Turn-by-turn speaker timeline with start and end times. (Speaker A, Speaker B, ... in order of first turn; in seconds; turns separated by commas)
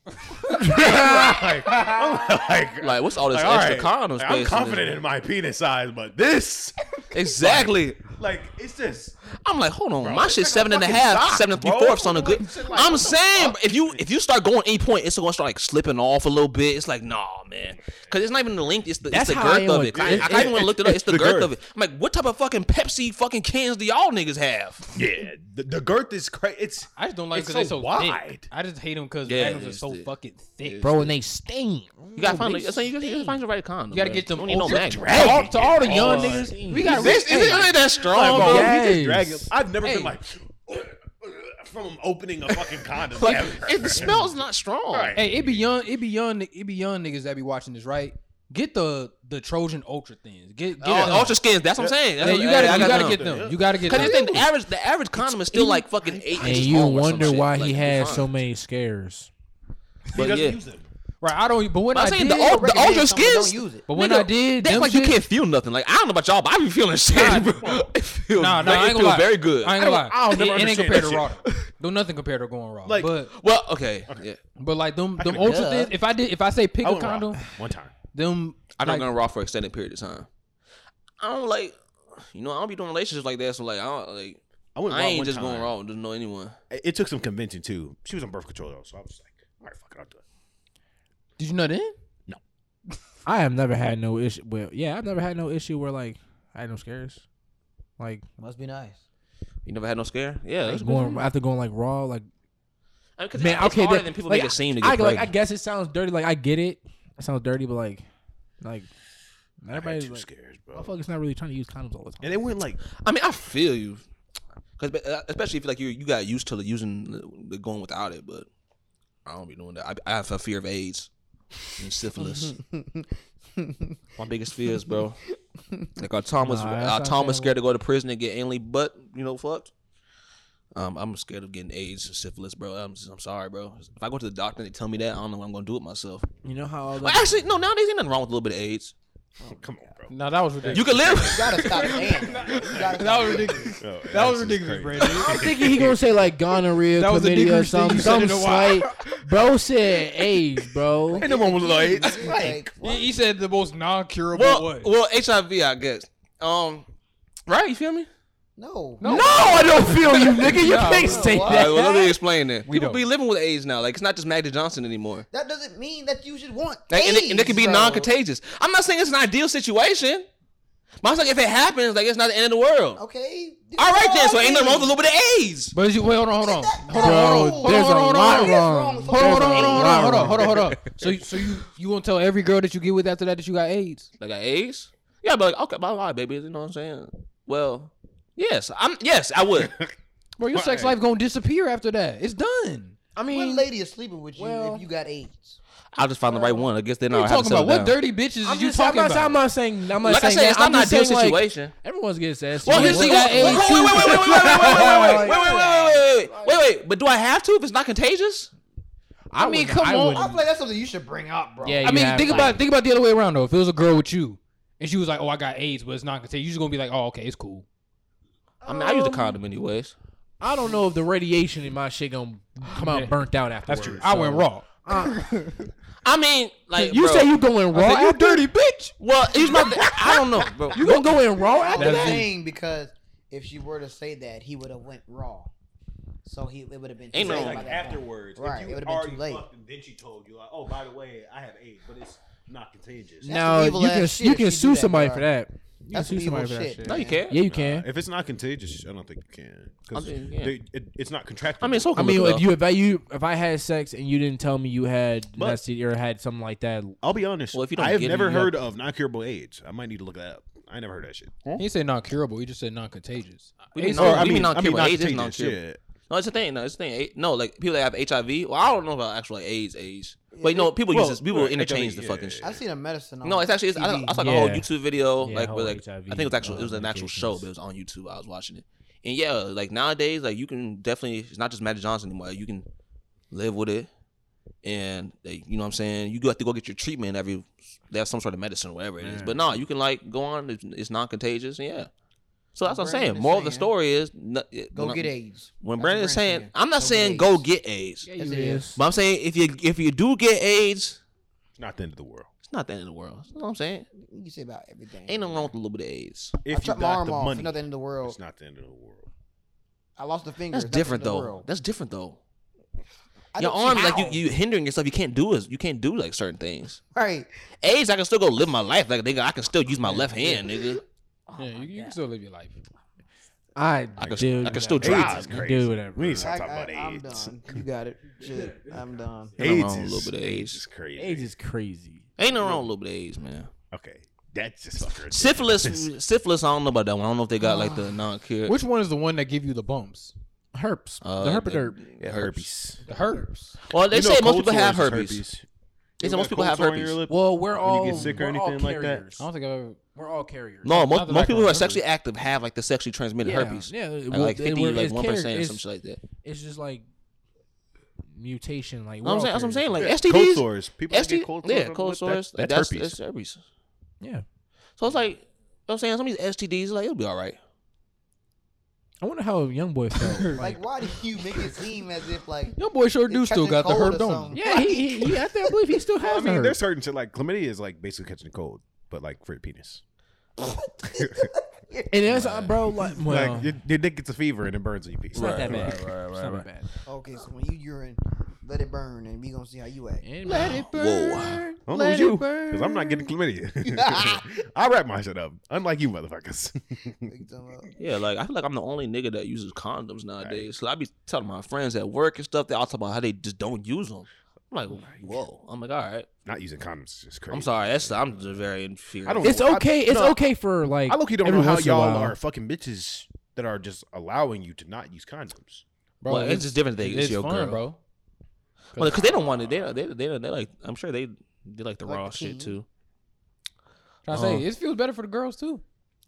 Speaker A: 0.3-9.2, Speaker B: 0.5-0.8, Speaker C: 0.7-1.3, Speaker D: 2.8-5.0, Speaker D: 7.1-8.1, Speaker D: 9.4-24.9, Speaker A: 10.0-14.0, Speaker C: 19.1-20.6, Speaker A: 19.9-21.5, Speaker A: 24.9-28.5, Speaker B: 26.9-30.9, Speaker D: 29.2-30.1, Speaker D: 30.6-31.1, Speaker C: 30.8-33.4, Speaker D: 32.1-35.4, Speaker B: 33.9-37.7, Speaker A: 34.6-36.6, Speaker C: 35.1-37.4, Speaker D: 36.8-38.7, Speaker A: 37.3-44.3, Speaker C: 38.3-39.5, Speaker B: 39.8-40.1, Speaker D: 43.2-45.2, Speaker B: 43.3-43.6, Speaker A: 44.9-45.7, Speaker B: 45.1-51.4, Speaker D: 50.8-53.3, Speaker A: 51.8-54.4, Speaker B: 52.2-54.4, Speaker D: 53.8-58.3, Speaker E: 56.0-56.8, Speaker C: 56.4-59.3, Speaker A: 60.1-60.9, Speaker D: 60.1-60.6, Speaker B: 61.2-62.5, Speaker D: 61.9-69.9, Speaker E: 62.3-63.8, Speaker B: 63.9-65.2, Speaker B: 67.1-67.6, Speaker A: 67.2-67.9, Speaker B: 68.3-73.3, Speaker A: 69.8-71.4, Speaker A: 72.8-73.1, Speaker D: 73.3-74.4, Speaker B: 74.6-77.4, Speaker A: 75.2-75.8, Speaker D: 75.3-75.9, Speaker A: 76.8-77.9, Speaker B: 78.1-79.1, Speaker D: 78.8-80.3, Speaker D: 81.2-86.5, Speaker A: 84.7-85.7, Speaker A: 86.7-90.2, Speaker B: 91.4-91.9, Speaker C: 93.2-97.2, Speaker E: 98.4-99.0, Speaker D: 99.6-101.2, Speaker C: 100.7-102.3, Speaker D: 103.2-105.3, Speaker C: 103.3-108.0, Speaker C: 108.6-108.9, Speaker C: 109.6-112.4, Speaker A: 109.7-111.0, Speaker A: 112.2-112.8, Speaker D: 113.0-114.0, Speaker D: 114.8-118.5, Speaker D: 119.2-121.1, Speaker D: 121.7-122.5, Speaker E: 122.2-124.0, Speaker D: 124.2-125.2, Speaker D: 126.0-129.7, Speaker C: 126.4-127.5, Speaker D: 130.7-136.3, Speaker C: 136.4-137.3, Speaker D: 137.0-138.9, Speaker A: 139.4-141.6, Speaker B: 140.1-145.4, Speaker D: 140.7-142.2, Speaker E: 141.1-143.8, Speaker A: 143.8-146.0, Speaker C: 145.2-151.3, Speaker B: 146.9-149.1, Speaker E: 151.1-153.0, Speaker A: 151.1-152.7, Speaker B: 152.8-154.9, Speaker D: 154.3-156.9, Speaker D: 157.5-158.1, Speaker E: 158.6-161.8, Speaker B: 159.0-159.9, Speaker C: 159.0-162.2, Speaker D: 159.1-165.3, Speaker B: 160.5-161.4, Speaker B: 162.7-163.0, Speaker E: 165.3-168.1, Speaker D: 166.9-170.3, Speaker D: 171.0-173.0, Speaker E: 173.0-174.9, Speaker D: 173.8-175.7, Speaker B: 175.7-184.1, Speaker E: 176.4-180.4, Speaker C: 176.9-180.6, Speaker A: 180.9-181.3, Speaker D: 184.2-189.8, Speaker A: 189.6-189.9, Speaker B: 190.4-192.9, Speaker A: 190.5-190.9, Speaker C: 193.2-193.7, Speaker E: 193.3-195.6, Speaker C: 194.3-194.8, Speaker D: 195.9-197.9, Speaker E: 196.3-196.6, Speaker B: 197.1-199.4, Speaker C: 198.4-206.7, Speaker D: 199.9-201.7, Speaker D: 202.6-208.5, Speaker B: 202.6-205.2, Speaker E: 204.7-206.0, Speaker C: 209.3-210.4, Speaker B: 209.3-210.3, Speaker E: 210.1-212.5, Speaker C: 211.6-212.6, Speaker B: 211.8-217.6, Speaker D: 218.6-219.9, Speaker E: 218.7-219.3, Speaker C: 220.4-225.3, Speaker B: 222.7-225.7, Speaker D: 226.0-227.3, Speaker C: 226.8-228.5, Speaker B: 227.7-228.9, Speaker D: 229.0-231.2, Speaker B: 229.5-229.8, Speaker C: 230.7-232.3, Speaker E: 231.4-235.5, Speaker B: 231.7-232.3, Speaker E: 236.2-239.4, Speaker D: 237.1-237.7, Speaker A: 237.1-243.4, Speaker E: 243.2-245.3, Speaker C: 243.3-247.9, Speaker E: 245.9-247.2, Speaker D: 246.8-247.4, Speaker A: 247.5-252.3, Speaker D: 249.9-250.5, Speaker D: 251.6-252.5, Speaker C: 251.9-257.0, Speaker A: 255.3-255.6, Speaker A: 257.0-261.6, Speaker D: 257.5-258.5, Speaker B: 261.6-264.4, Speaker A: 263.8-265.8, Speaker D: 263.9-265.6, Speaker D: 266.1-272.4, Speaker E: 270.3-270.7, Speaker A: 270.9-272.6, Speaker E: 272.4-274.1, Speaker D: 273.2-282.7, Speaker C: 274.1-274.7, Speaker C: 275.2-277.5, Speaker D: 283.3-283.9, Speaker D: 284.6-291.9, Speaker C: 289.0-289.4, Speaker D: 292.5-298.1, Speaker E: 292.6-293.7, Speaker E: 294.7-297.4, Speaker C: 298.1-298.8, Speaker E: 298.2-298.7, Speaker D: 298.7-301.0, Speaker A: 301.6-302.3, Speaker D: 302.4-303.9, Speaker E: 303.9-305.5, Speaker D: 305.1-306.4, Speaker A: 306.4-309.1, Speaker E: 306.5-308.1, Speaker E: 310.0-311.4, Speaker D: 310.5-312.2, Speaker E: 313.3-314.2, Speaker D: 313.4-316.8, Speaker E: 316.9-317.3, Speaker D: 317.6-320.8, Speaker E: 319.8-320.8, Speaker B: 321.4-322.6, Speaker D: 321.6-321.9, Speaker C: 323.6-326.3, Speaker D: 324.0-325.4, Speaker A: 324.1-327.6, Speaker E: 326.2-329.4, Speaker A: 329.4-331.3, Speaker D: 329.4-330.6, Speaker C: 331.0-332.1, Speaker D: 332.2-333.5, Speaker A: 332.4-332.7, Speaker A: 333.7-335.9, Speaker D: 335.0-338.6, Speaker E: 337.4-338.0, Speaker B: 338.4-340.1, Speaker C: 340.5-341.8, Speaker D: 341.0-342.4, Speaker A: 342.0-342.8, Speaker B: 342.9-343.5, Speaker D: 343.7-345.2, Speaker A: 343.9-345.4, Speaker A: 346.0-349.0, Speaker D: 346.0-347.0, Speaker C: 347.1-349.2, Speaker B: 349.2-349.8, Speaker C: 349.9-350.7, Speaker D: 350.6-356.0, Speaker B: 350.7-351.8, Speaker C: 353.2-355.6, Speaker C: 356.2-356.8, Speaker C: 358.1-359.9, Speaker D: 359.0-363.4, Speaker A: 359.8-362.9, Speaker D: 364.8-367.4, Speaker C: 369.0-370.6, Speaker B: 370.0-370.4, Speaker E: 370.3-372.6, Speaker B: 372.6-374.4, Speaker E: 373.1-375.2, Speaker C: 374.3-376.6, Speaker A: 376.0-379.8, Speaker E: 380.4-382.2, Speaker A: 381.0-381.3, Speaker C: 381.9-383.5, Speaker A: 382.2-385.8, Speaker D: 385.1-386.4, Speaker C: 385.1-386.7, Speaker E: 386.9-390.8, Speaker C: 390.0-391.6, Speaker D: 390.6-391.4, Speaker A: 391.6-397.1, Speaker E: 391.7-393.1, Speaker E: 393.7-394.2, Speaker E: 397.1-397.7, Speaker D: 397.8-406.1, Speaker A: 400.2-400.5, Speaker A: 404.8-405.2, Speaker A: 406.2-408.2, Speaker D: 407.3-409.4, Speaker A: 409.0-410.2, Speaker C: 409.2-412.1, Speaker A: 410.9-415.6, Speaker B: 416.0-417.8, Speaker D: 416.1-417.6, Speaker B: 418.8-419.0, Speaker D: 418.8-422.6, Speaker A: 418.8-419.8, Speaker E: 421.9-422.6, Speaker B: 424.1-425.6, Speaker D: 424.1-424.4